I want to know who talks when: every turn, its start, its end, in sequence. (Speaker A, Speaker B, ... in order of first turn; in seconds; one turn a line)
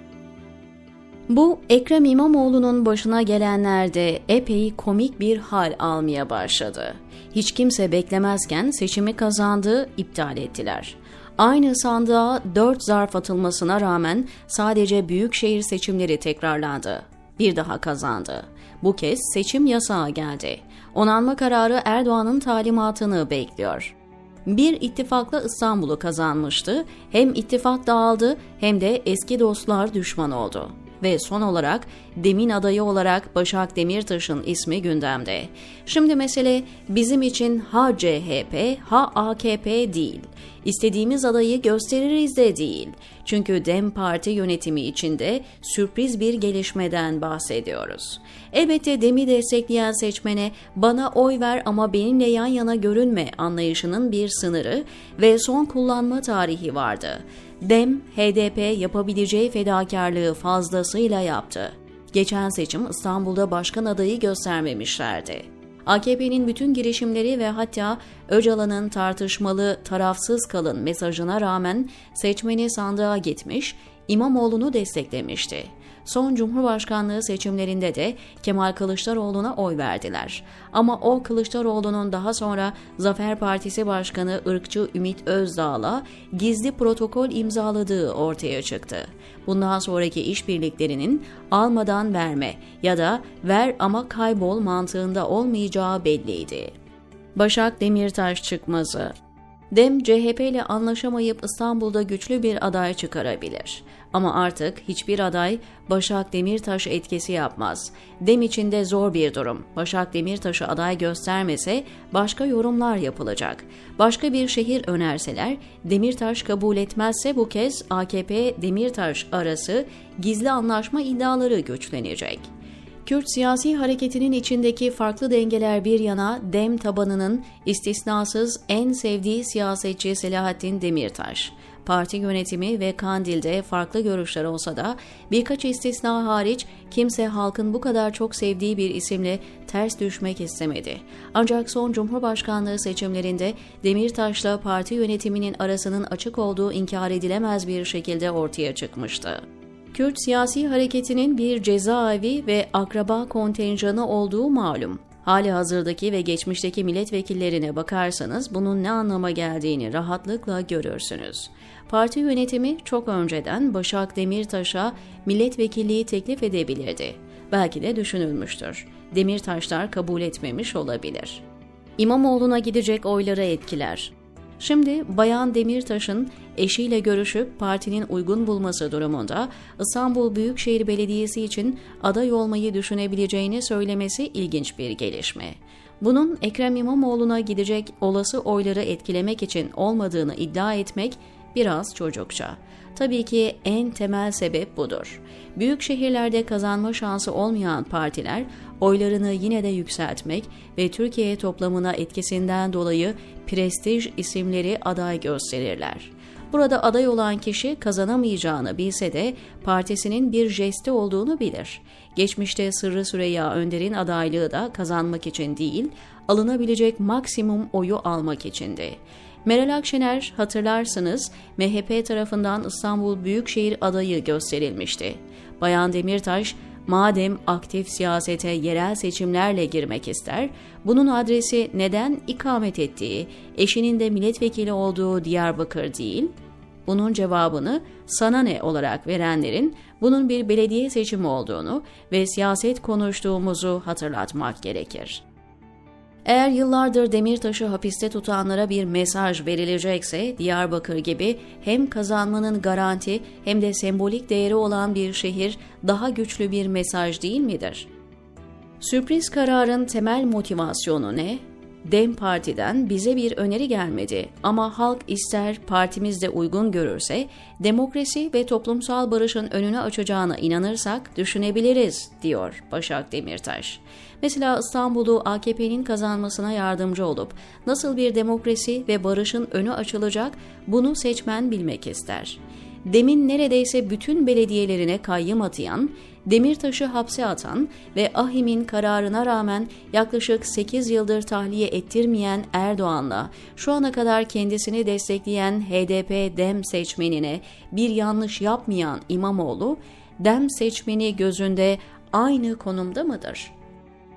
Speaker A: 1.3-23.9
Speaker A: 24.5-96.7
Speaker A: 97.3-99.1
Speaker A: 99.7-122.5
Speaker A: 123.0-171.4
Speaker A: 172.0-236.3
Speaker A: 236.9-245.2
Speaker A: 246.2-257.9
Speaker A: 258.8-303.5